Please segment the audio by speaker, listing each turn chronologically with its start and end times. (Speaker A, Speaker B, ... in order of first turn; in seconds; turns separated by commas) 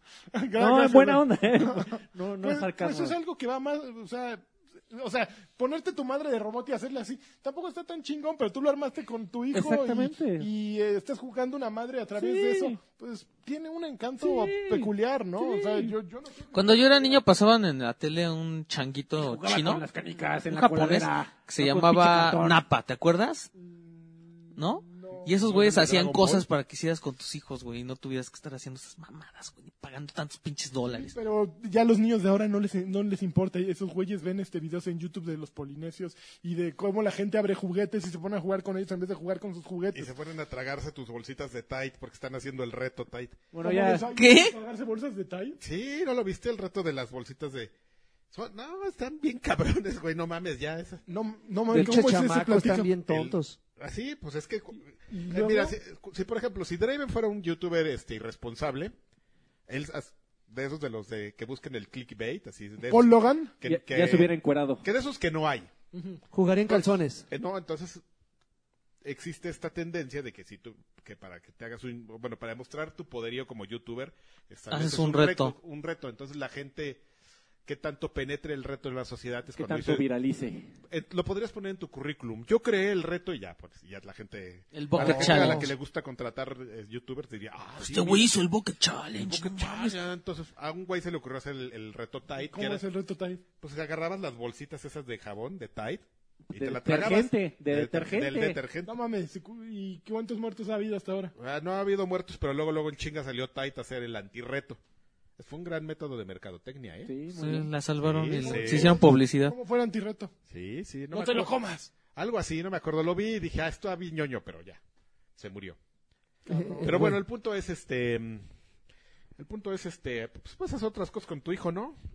Speaker A: 0.3-16.8, Speaker B: 0.6-3.2, Speaker B: 9.5-10.5, Speaker B: 12.2-12.8, Speaker B: 14.2-15.9, Speaker C: 16.5-19.8, Speaker B: 19.2-22.6, Speaker C: 20.5-23.5, Speaker A: 23.6-25.3, Speaker C: 24.6-31.1, Speaker D: 25.4-26.4, Speaker A: 30.8-40.1, Speaker D: 39.9-43.5, Speaker B: 43.5-44.1, Speaker A: 43.6-45.6, Speaker C: 44.1-44.5, Speaker D: 45.6-47.7, Speaker D: 48.3-51.0, Speaker A: 51.1-53.0, Speaker E: 51.7-53.6, Speaker D: 53.0-59.0, Speaker A: 55.1-55.8, Speaker D: 59.7-65.7, Speaker A: 62.9-63.5, Speaker B: 63.6-64.8, Speaker A: 65.9-66.2, Speaker E: 66.3-67.2, Speaker D: 66.7-68.0, Speaker D: 69.0-77.0, Speaker C: 74.7-75.5, Speaker D: 77.7-80.0, Speaker B: 79.5-80.7, Speaker D: 80.9-88.3, Speaker C: 84.7-85.7, Speaker A: 85.0-85.6, Speaker C: 87.8-90.0, Speaker D: 89.2-92.8, Speaker A: 92.5-93.4, Speaker D: 93.6-98.9, Speaker B: 96.5-98.6, Speaker A: 98.9-101.3, Speaker D: 101.4-104.8, Speaker D: 105.4-107.1, Speaker B: 107.0-107.7, Speaker C: 107.3-109.6, Speaker D: 108.0-109.0, Speaker A: 108.5-110.3, Speaker D: 110.5-111.5, Speaker A: 111.1-111.9, Speaker D: 112.1-114.8, Speaker D: 115.4-115.8, Speaker A: 116.5-117.2, Speaker E: 116.5-117.2, Speaker D: 116.8-118.4, Speaker D: 119.4-122.0